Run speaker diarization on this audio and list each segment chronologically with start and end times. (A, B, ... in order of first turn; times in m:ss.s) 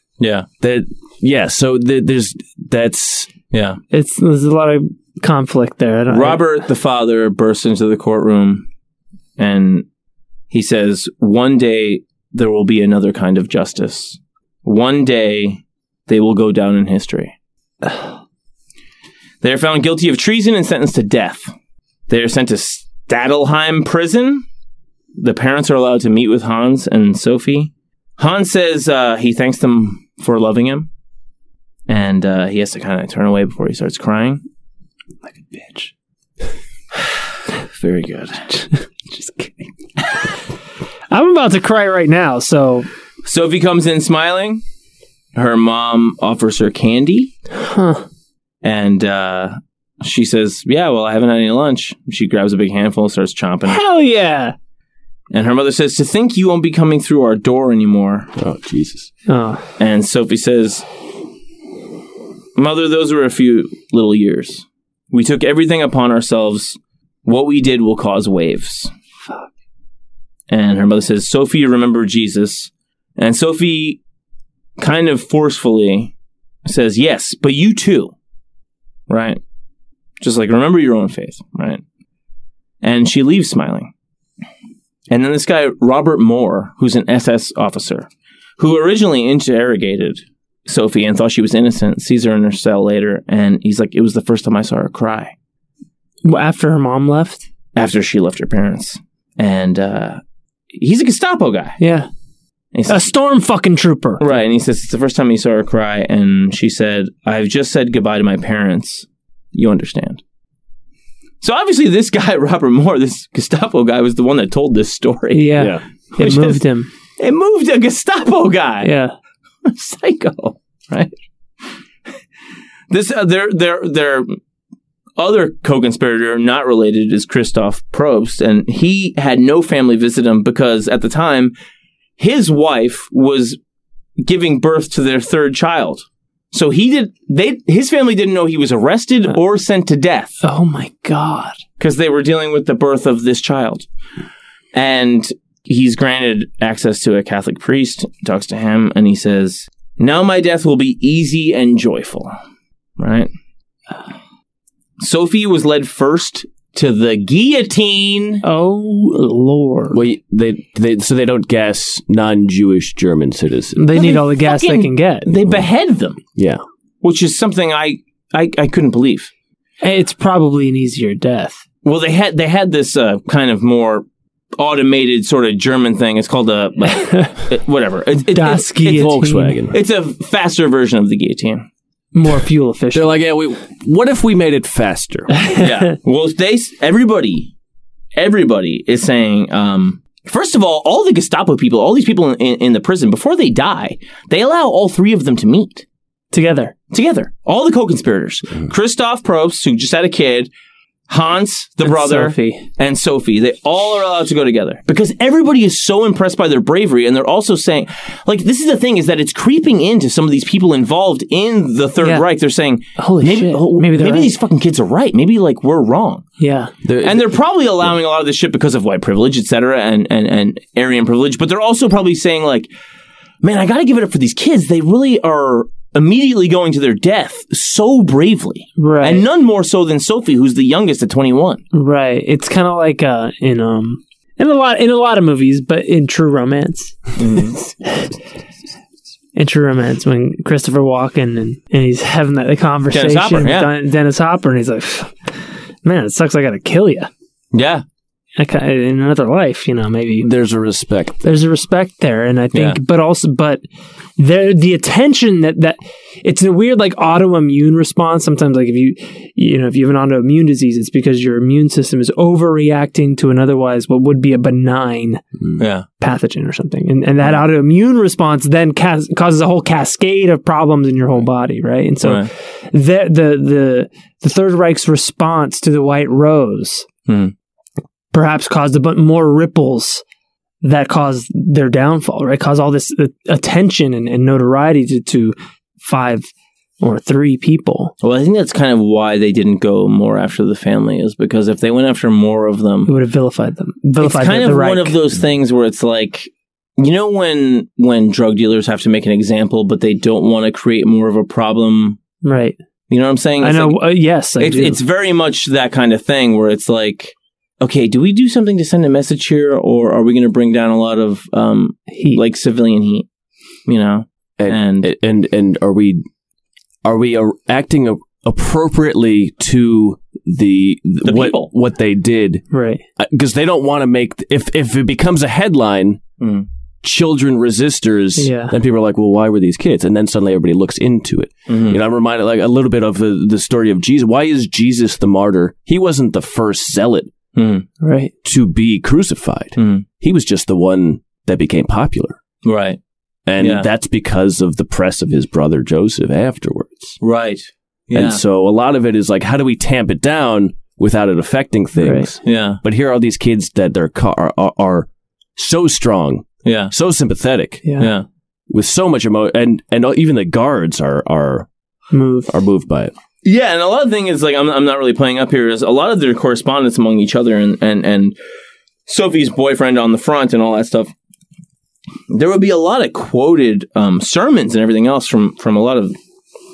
0:00.2-0:00.5 A
0:00.6-0:03.3 B
0:03.5-0:03.8 A
0:03.9-0:06.4 C
0:06.1-0:08.7 A
0:09.4-0:09.8 A
0:10.5-0:17.3 A
0:19.4-0:21.5 A
0:22.1-0:24.4 A
0:25.2-0:30.9 A
0:31.9-0:34.4 A
0:35.3-0:35.9 C
0:37.6-0:38.5 A
0:38.5-0:39.6 C
0:41.1-0:42.9 C
0:43.2-0:44.6 A
0:45.3-0:47.3 A
0:47.5-0:48.0 C
0:48.6-0:53.8 A
0:53.7-0:54.5 C
0:55.3-0:58.3 A
0:58.4-0:59.1 B
0:59.3-0:59.6 C
0:59.8-1:00.8 A
1:02.6-1:08.9 A
1:10.5-1:14.0 A
1:14.8-1:16.1 A
1:16.6-1:18.1 A
1:19.1-1:19.4 A
1:20.2-1:21.8 A
1:22.8-1:23.9 A
1:25.1-1:28.1 A
1:28.6-1:35.3 A
1:36.2-1:37.5 C
1:37.7-1:40.2 A
1:40.7-1:41.8 A
1:41.8-1:42.1 C
1:42.7-1:43.1 A
1:42.9-1:44.2 C
1:44.2-1:50.2 A
1:51.4-1:55.6 A
1:55.3-1:56.9 C
1:55.6-1:55.8 B
1:56.2-1:56.6 A
1:57.2-1:58.9 A
1:58.8-1:59.1 C
1:59.6-2:01.1 A
2:02.9-2:04.3 A
2:05.2-2:11.5 A
2:12.2-2:13.6 A
2:14.2-2:20.4 A
2:20.4-2:21.6 C
2:21.8-2:23.9 A
2:24.7-2:32.3 A
2:33.0-2:33.3 A
2:35.0-2:38.4 A
2:38.4-2:40.0 C
2:39.9-2:43.8 B
2:43.8-2:45.3 C
2:43.9-2:46.2 A
2:46.4-2:46.6 B
2:47.0-2:49.3 A
2:49.8-2:51.6 C
2:51.8-2:54.0 A
2:54.6-2:59.2 A
2:56.9-2:57.3 C
2:58.3-2:59.6 C
2:58.9-2:59.8 B
2:59.7-3:01.7 A
3:02.1-3:03.2 C
3:02.9-3:05.4 B
3:05.4-3:05.6 C
3:05.5-3:07.5 A
3:08.2-3:15.8 A
3:16.3-3:16.7 C
3:16.9-3:20.5 A
3:21.1-3:36.2 A
3:21.8-3:22.6 C
3:33.0-3:34.3 C
3:36.4-3:36.7 C
3:36.8-3:37.3 B
3:37.0-3:42.7 A
3:43.4-3:51.6 A
3:48.8-3:49.2 C
3:51.7-3:57.2 C
3:57.2-3:57.6 A
3:57.8-3:58.1 C
3:59.3-4:05.3 C
4:02.9-4:03.7 A
4:05.8-4:07.1 C
4:07.5-4:07.8 A
4:08.4-4:10.3 C
4:10.2-4:11.2 B
4:11.2-4:13.6 C
4:12.5-4:12.8 A
4:14.2-4:25.2 C
4:25.6-4:25.8 A
4:26.0-4:36.8 C
4:32.0-4:32.3 A
4:37.1-4:37.3 A
4:38.1-4:40.0 C
4:40.6-4:47.9 C
4:48.0-4:52.9 A
4:52.9-4:55.0 C
4:54.0-5:02.0 A
5:02.2-5:02.6 C
5:02.9-5:03.8 A
5:03.4-5:04.8 C
5:04.4-5:13.1 A
5:11.9-5:12.2 C
5:13.7-5:14.9 A
5:14.4-5:16.0 B
5:16.8-5:22.4 B
5:21.0-5:21.5 A
5:22.5-5:22.8 C
5:23.0-5:26.0 B
5:26.2-5:26.5 A
5:26.8-5:37.1 B
5:28.2-5:28.5 C
5:31.5-5:31.8 A
5:37.3-5:37.6 A
5:37.8-5:38.1 C
5:38.2-5:42.2 B
5:39.6-5:39.8 A
5:42.4-5:42.8 A
5:43.3-5:47.0 B
5:43.4-5:43.7 A
5:47.0-5:48.2 A
5:47.9-5:57.6 B
5:51.8-5:52.1 C
5:52.2-5:52.6 A
5:56.4-5:56.7 A
5:57.6-5:57.9 C
5:57.8-5:58.0 A
5:58.5-6:01.5 B
6:01.9-6:02.4 C
6:02.3-6:02.9 B
6:03.2-6:08.2 A
6:08.8-6:10.9 A
6:12.1-6:15.9 A